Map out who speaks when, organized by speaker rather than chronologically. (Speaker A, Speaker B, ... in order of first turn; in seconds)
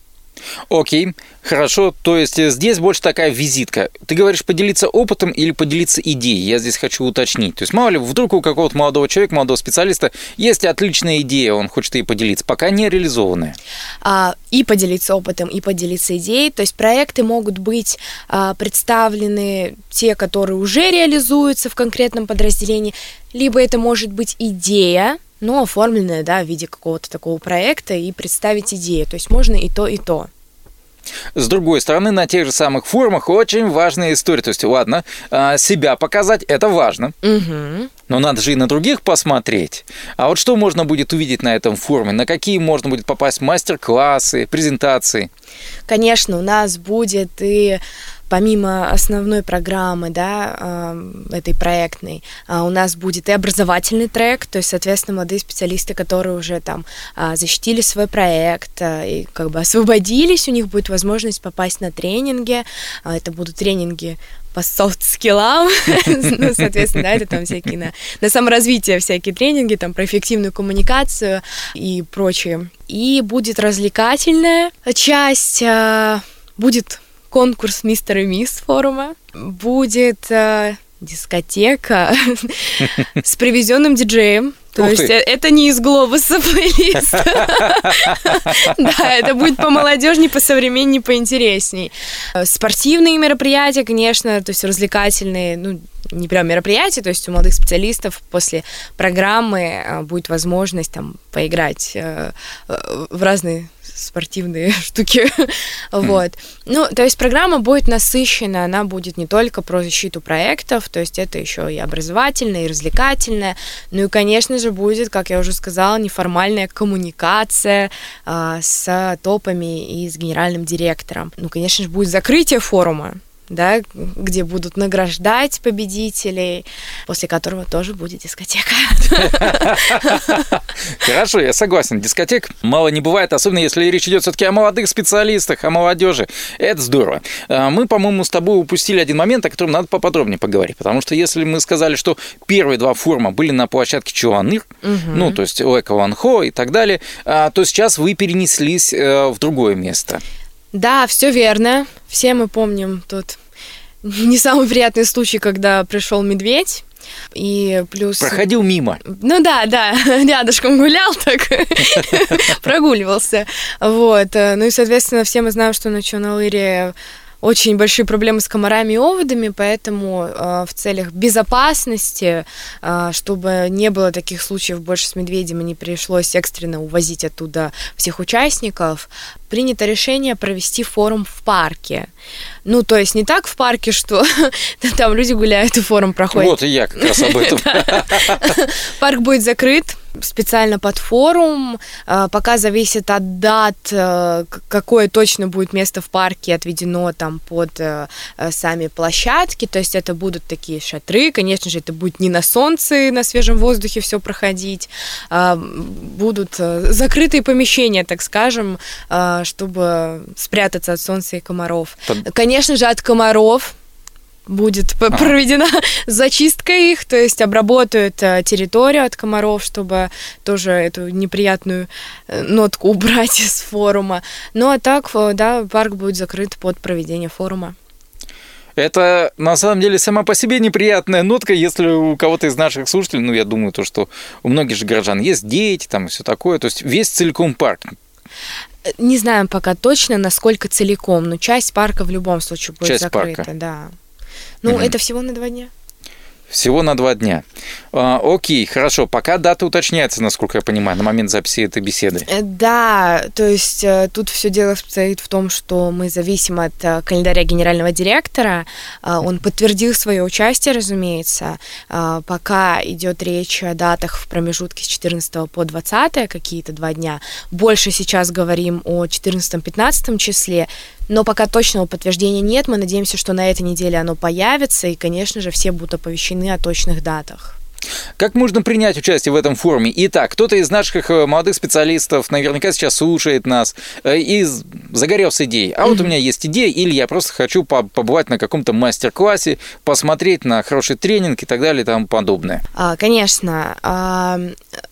Speaker A: 0.7-13.6, 31.3-37.1, 38.1-45.3, 84.8-85.1, 129.3-150.2, 158.2-159.0, 186.3-188.5, 228.8-237.9, 242.8-243.5, 244.6-244.9, 246.5-252.3, 278.2-292.6
Speaker B: 14.0-30.3, 37.2-37.9, 45.9-130.3, 144.8-145.4, 150.7-153.4, 154.0-158.4, 159.0-182.1, 182.6-213.8, 214.5-227.8, 239.0-243.9, 244.6-245.7, 252.3-277.6, 292.8-294.6